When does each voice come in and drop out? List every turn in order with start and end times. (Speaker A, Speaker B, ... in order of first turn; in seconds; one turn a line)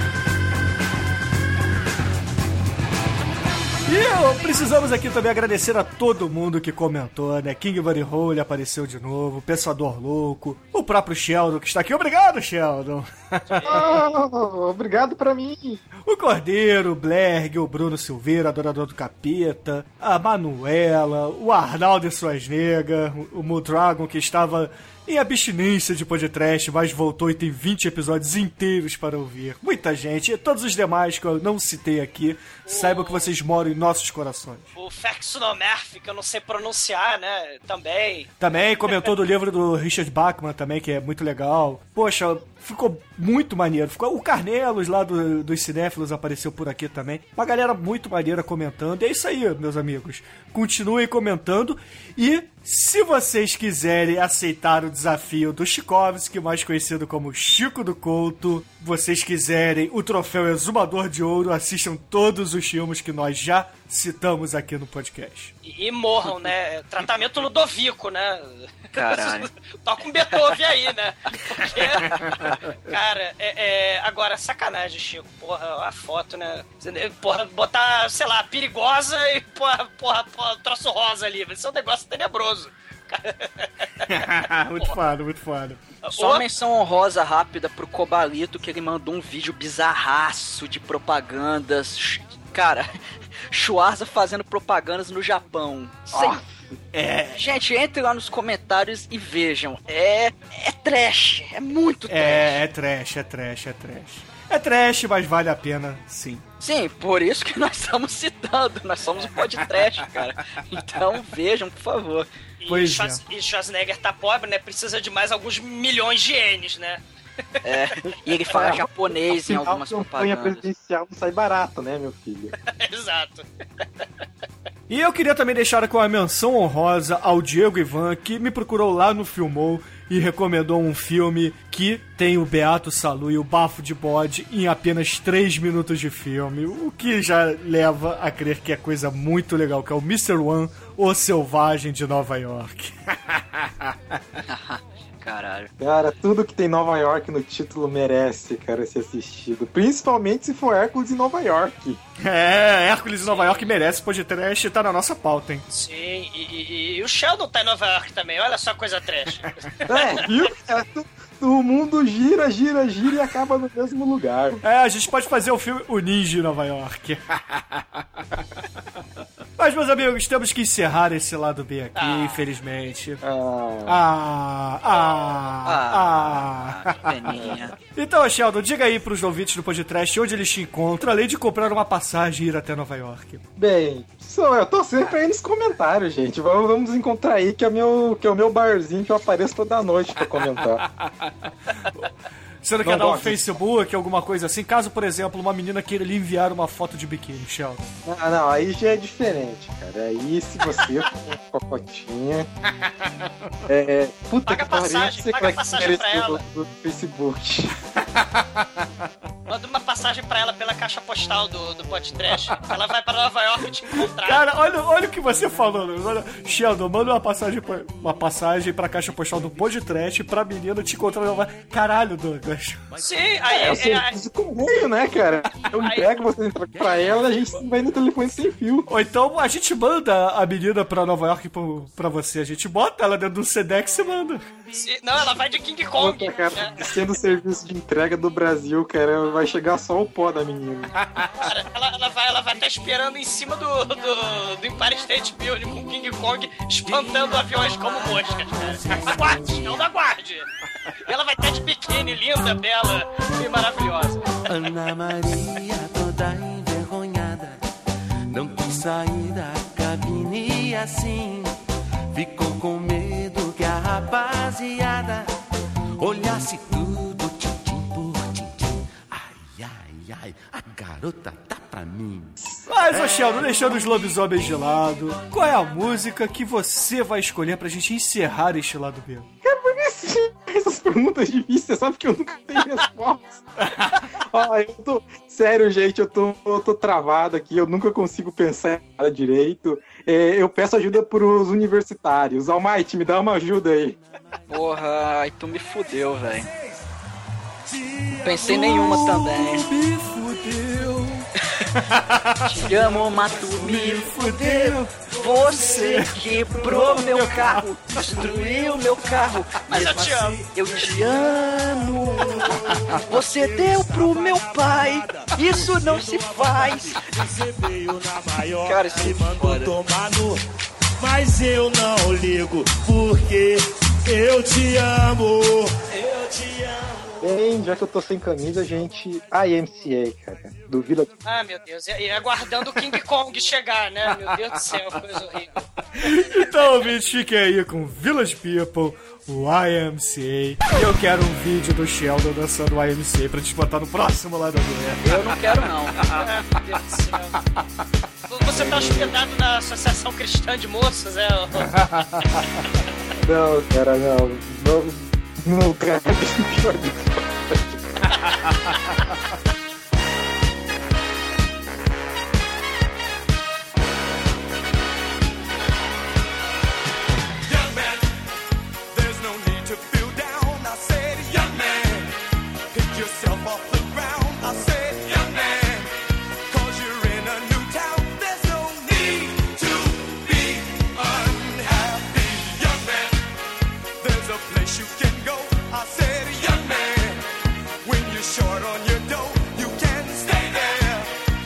Speaker A: 3.9-13.8
Speaker B: 13.5-14.1
Speaker C: 13.7-15.8
Speaker A: 16.1-34.7
Speaker B: 32.6-33.3
Speaker B: 34.8-38.3
Speaker A: 38.4-65.5
Speaker B: 65.6-84.1
Speaker D: 68.9-69.5
Speaker D: 71.6-72.6
Speaker A: 84.0-85.8
Speaker B: 86.0-86.4
Speaker D: 86.1-92.9
Speaker D: 93.5-96.4
Speaker C: 96.1-96.8
Speaker A: 96.9-97.4
Speaker D: 97.3-102.6
Speaker A: 102.1-106.4
Speaker D: 106.6-112.3
Speaker B: 112.6-117.0
Speaker A: 112.7-113.2
Speaker D: 117.6-120.7
Speaker C: 118.0-122.5
Speaker B: 122.6-123.4
Speaker A: 124.9-144.2
Speaker D: 144.5-145.7
Speaker C: 145.8-152.0
Speaker A: 152.2-155.7
Speaker B: 153.2-153.7
Speaker B: 155.7-160.3
Speaker C: 159.9-164.6
Speaker A: 164.6-168.0
Speaker A: 169.6-173.2
Speaker B: 171.9-172.5
Speaker C: 173.2-174.0
Speaker A: 173.8-183.4
Speaker B: 175.0-175.3
Speaker D: 175.6-177.8
Speaker C: 183.6-190.8
Speaker A: 191.0-192.1
Speaker A: 192.6-197.8
Speaker C: 192.8-193.6
Speaker C: 198.0-202.5
Speaker C: 203.7-207.7
Speaker B: 204.5-206.4
Speaker A: 208.2-208.6
Speaker B: 209.5-214.5
Speaker A: 214.2-222.9
Speaker B: 223.0-224.1
Speaker C: 223.5-228.9
Speaker B: 225.8-226.1
Speaker A: 228.9-234.4
Speaker B: 234.7-236.9
Speaker C: 236.0-240.9
Speaker B: 241.4-254.4
Speaker E: 247.3-247.9
Speaker E: 248.7-249.5
Speaker E: 254.5-257.6
Speaker E: 258.3-261.6
Speaker E: 262.1-265.3
Speaker E: 266.0-273.2
Speaker A: 272.6-279.3
Speaker C: 279.4-283.4
Speaker A: 283.8-284.0
Speaker C: 284.1-294.0
Speaker D: 294.5-296.5
Speaker F: 297.7-299.4
Speaker D: 298.2-299.7
Speaker A: 298.4-302.7
Speaker D: 302.5-317.0
Speaker F: 302.7-307.5
Speaker A: 303.6-307.7
Speaker F: 308.0-320.4
Speaker B: 309.7-310.4
Speaker D: 318.6-319.7
Speaker F: 321.0-327.2
Speaker C: 327.2-331.1
Speaker B: 331.2-336.9
Speaker A: 335.9-345.4
Speaker D: 345.0-346.0
Speaker B: 346.1-347.4
Speaker B: 348.3-351.7
Speaker C: 348.5-349.1
Speaker A: 351.7-352.4
Speaker C: 353.2-358.0
Speaker B: 358.1-358.8
Speaker F: 367.4-368.0
Speaker F: 368.9-372.1
Speaker F: 372.7-375.9
Speaker F: 376.5-383.2
Speaker F: 384.0-387.3
Speaker F: 387.8-391.1